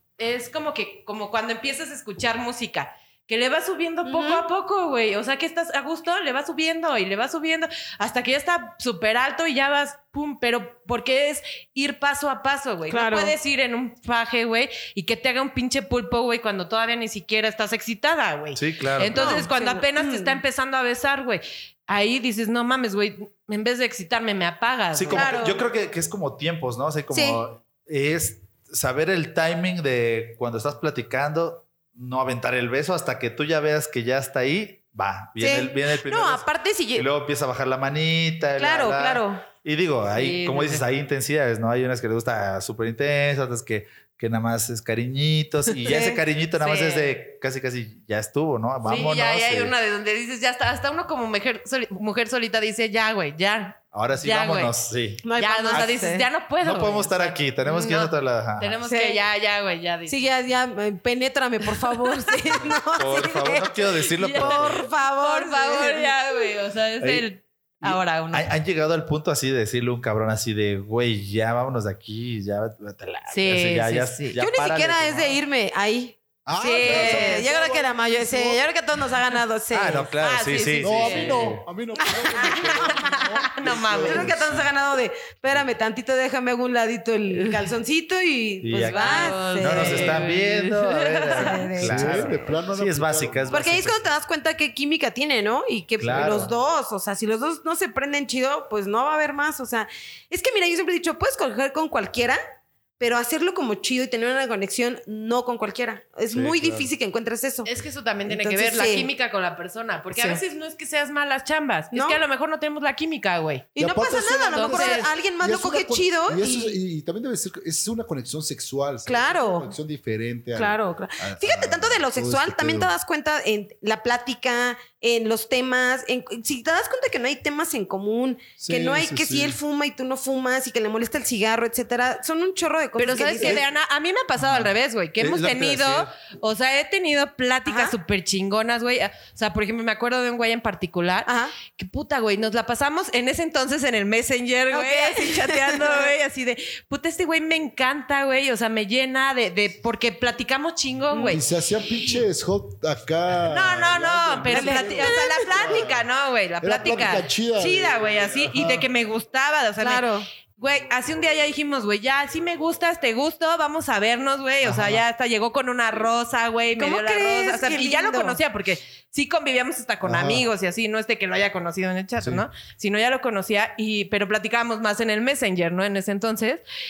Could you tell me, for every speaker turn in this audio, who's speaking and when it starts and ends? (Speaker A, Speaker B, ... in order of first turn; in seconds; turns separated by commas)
Speaker A: 0.2-25.4, Speaker B: 4.0-4.5, Speaker B: 12.9-13.3, Speaker C: 18.6-19.5, Speaker B: 19.1-20.4, Speaker C: 24.9-49.7, Speaker B: 25.1-25.6, Speaker B: 27.1-27.4, Speaker B: 35.4-37.1, Speaker B: 38.6-39.4, Speaker A: 40.1-40.9, Speaker B: 45.9-46.2, Speaker A: 46.6-47.1, Speaker A: 48.8-54.7, Speaker C: 53.9-55.9, Speaker B: 55.2-56.3, Speaker A: 55.4-60.2, Speaker C: 56.6-58.8, Speaker B: 58.9-59.2, Speaker B: 60.1-66.2, Speaker C: 62.5-64.8, Speaker A: 64.2-68.5, Speaker C: 67.8-75.4, Speaker A: 73.3-74.4, Speaker B: 74.4-80.1, Speaker D: 76.5-78.6, Speaker A: 76.6-77.5, Speaker C: 79.7-81.7, Speaker A: 80.2-81.5, Speaker D: 80.8-84.7, Speaker B: 82.0-83.0, Speaker A: 82.5-84.3, Speaker B: 84.0-90.2, Speaker C: 88.6-94.0, Speaker A: 88.8-91.6, Speaker B: 91.3-92.5, Speaker D: 91.8-93.8, Speaker B: 93.5-102.4, Speaker C: 96.0-96.5, Speaker B: 103.0-107.7, Speaker C: 106.3-106.9, Speaker A: 107.7-113.7, Speaker B: 108.2-109.1, Speaker B: 110.1-110.4, Speaker B: 111.9-112.2, Speaker B: 113.8-116.8, Speaker D: 113.8-122.9, Speaker A: 114.5-115.1, Speaker B: 119.1-119.7, Speaker B: 120.5-133.6, Speaker D: 128.6-129.6, Speaker A: 133.0-151.4, Speaker C: 134.4-136.1, Speaker B: 137.7-137.9, Speaker B: 141.3-141.6, Speaker B: 144.7-146.1, Speaker B: 151.1-151.4, Speaker D: 151.2-156.1, Speaker A: 153.5-160.1, Speaker B: 154.5-155.8, Speaker D: 156.6-158.9, Speaker B: 159.8-160.3, Speaker A: 160.6-176.6, Speaker D: 164.6-165.0, Speaker B: 166.8-168.4, Speaker D: 170.0-170.5, Speaker D: 172.2-172.5